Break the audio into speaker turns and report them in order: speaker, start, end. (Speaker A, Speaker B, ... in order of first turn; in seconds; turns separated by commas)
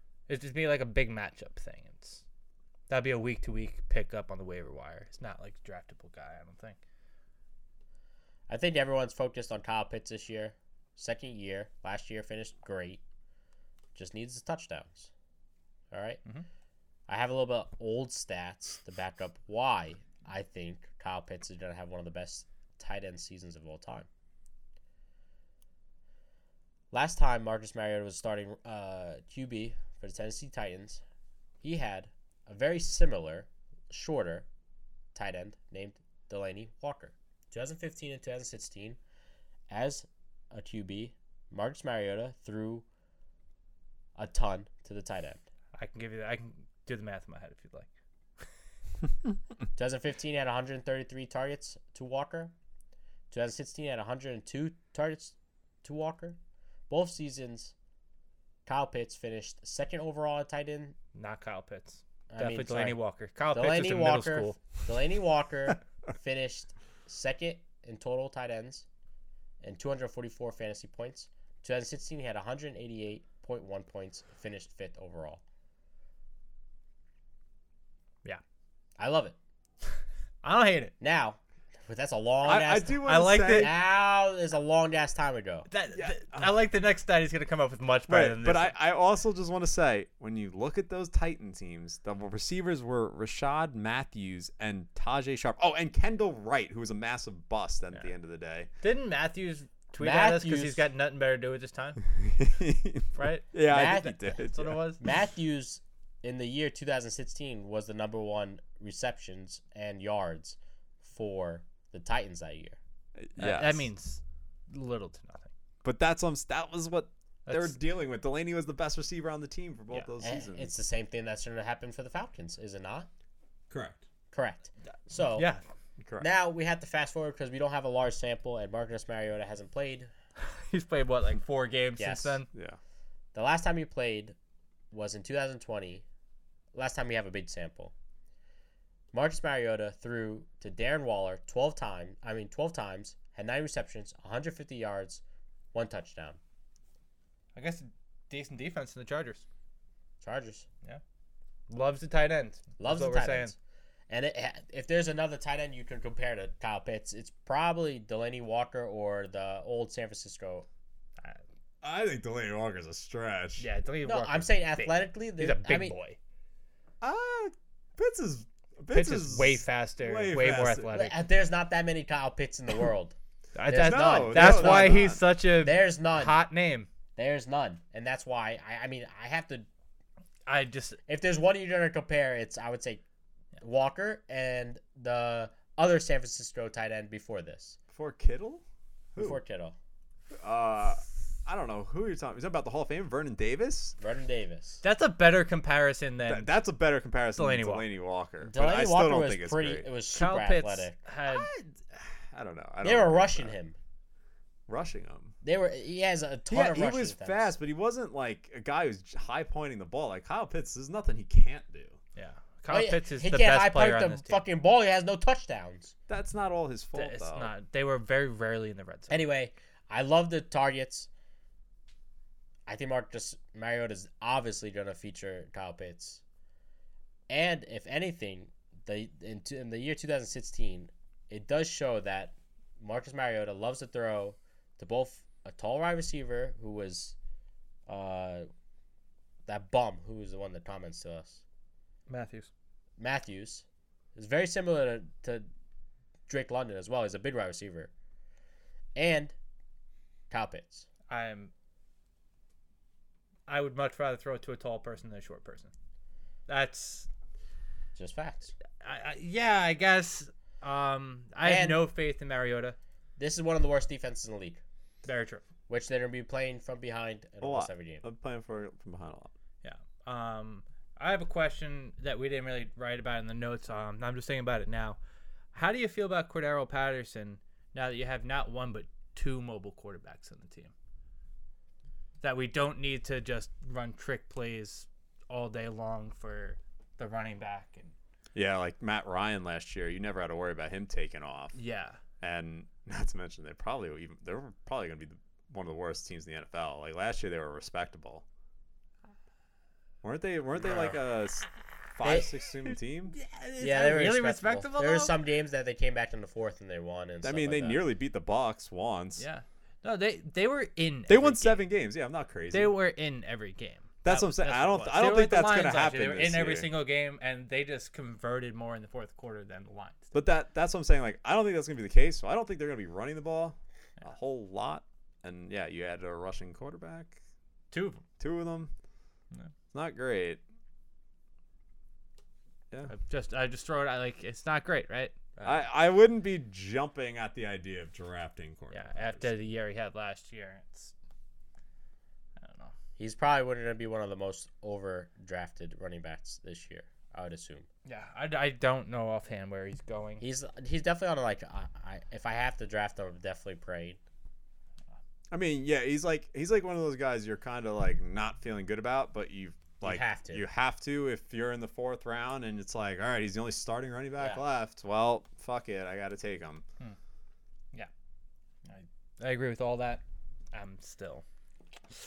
Speaker A: 0.3-2.2, Speaker A: 2.9-6.8, Speaker B: 8.5-13.0, Speaker B: 13.9-15.1, Speaker B: 15.9-16.2, Speaker B: 17.1-24.1, Speaker B: 26.9-31.0, Speaker B: 31.6-34.5, Speaker B: 35.1-39.0, Speaker B: 39.7-42.9, Speaker B: 44.1-45.4, Speaker A: 45.7-47.9, Speaker B: 49.8-52.5, Speaker B: 53.3-56.4, Speaker B: 56.9-57.7, Speaker B: 58.6-61.0, Speaker A: 61.1-64.6, Speaker B: 62.3-63.0, Speaker B: 63.5-68.8, Speaker B: 69.6-75.4, Speaker B: 79.0-79.3, Speaker A: 80.4-80.9, Speaker B: 81.0-85.7, Speaker C: 82.4-83.7, Speaker A: 83.0-83.7, Speaker A: 85.7-88.7, Speaker C: 85.9-86.5, Speaker C: 88.1-98.7, Speaker A: 98.8-102.0, Speaker B: 100.0-100.9, Speaker C: 102.1-104.8, Speaker A: 103.1-103.5, Speaker B: 103.6-104.4, Speaker A: 104.5-105.0, Speaker B: 105.0-112.8, Speaker C: 113.2-113.8, Speaker A: 113.4-115.5, Speaker C: 115.8-120.7, Speaker A: 117.5-117.8, Speaker B: 120.2-123.1, Speaker C: 123.7-124.0, Speaker B: 124.3-125.5, Speaker A: 125.2-125.6, Speaker C: 126.0-126.3, Speaker B: 126.2-130.1, Speaker A: 130.4-132.5, Speaker B: 132.0-132.4, Speaker C: 132.5-132.8, Speaker B: 133.3-134.3, Speaker B: 134.9-136.0, Speaker B: 136.7-137.9, Speaker B: 139.1-145.2, Speaker B: 145.7-146.4, Speaker A: 147.5-149.4, Speaker B: 150.2-150.7, Speaker A: 151.7-153.5, Speaker B: 152.8-153.5, Speaker B: 154.1-160.7, Speaker C: 161.8-163.7, Speaker A: 163.6-166.2, Speaker B: 164.0-165.9, Speaker C: 167.0-170.9, Speaker A: 168.9-171.1, Speaker B: 170.9-173.1, Speaker A: 173.5-176.9, Speaker C: 173.7-175.2, Speaker B: 173.7-176.4, Speaker B: 177.2-179.7, Speaker A: 180.5-181.0, Speaker B: 181.1-183.0, Speaker B: 183.6-187.8, Speaker C: 187.9-188.6, Speaker B: 189.2-189.8, Speaker C: 190.4-193.9, Speaker B: 194.0-194.8, Speaker A: 194.8-196.5, Speaker C: 196.2-199.9, Speaker A: 197.3-197.8, Speaker B: 198.4-200.9, Speaker A: 200.1-201.5, Speaker C: 201.3-203.5, Speaker B: 202.8-203.8, Speaker C: 204.7-205.3, Speaker B: 205.4-207.5, Speaker C: 206.5-212.0, Speaker A: 212.1-214.4, Speaker B: 212.7-215.9, Speaker C: 216.1-217.5, Speaker A: 216.9-219.2, Speaker B: 219.1-221.1, Speaker B: 222.7-226.2, Speaker B: 227.3-237.1, Speaker B: 237.9-238.5, Speaker B: 239.4-241.4, Speaker A: 242.1-242.5, Speaker B: 243.0-245.5, Speaker B: 246.3-247.9, Speaker B: 248.9-249.3, Speaker B: 250.3-250.9, Speaker A: 251.1-251.5, Speaker A: 253.5-255.7, Speaker A: 256.5-257.1, Speaker B: 257.9-258.5, Speaker A: 258.8-262.8, Speaker B: 261.4-261.8, Speaker B: 263.2-264.6, Speaker A: 265.0-265.4, Speaker B: 265.7-268.0, Speaker C: 267.4-269.3, Speaker A: 269.6-275.0, Speaker A: 275.5-280.7, Speaker A: 282.2-287.9, Speaker C: 288.3-291.6, Speaker A: 291.5-292.0, Speaker C: 292.2-298.2, Speaker C: 300.0-303.1, Speaker B: 300.6-301.0, Speaker B: 302.0-302.3, Speaker A: 303.1-305.1, Speaker B: 303.6-307.8, Speaker C: 307.2-309.2, Speaker A: 309.2-311.7, Speaker C: 311.1-312.7, Speaker A: 312.5-320.1, Speaker C: 314.0-316.7, Speaker C: 320.1-327.2, Speaker A: 327.7-328.0, Speaker C: 328.2-328.7, Speaker C: 329.7-330.4, Speaker A: 332.9-335.6, Speaker C: 335.4-339.3, Speaker A: 338.7-340.9, Speaker A: 342.4-342.7, Speaker B: 343.0-347.7, Speaker A: 347.8-350.2, Speaker B: 350.2-354.0, Speaker C: 355.3-366.6, Speaker B: 359.8-360.4, Speaker A: 368.6-370.0, Speaker A: 370.5-371.2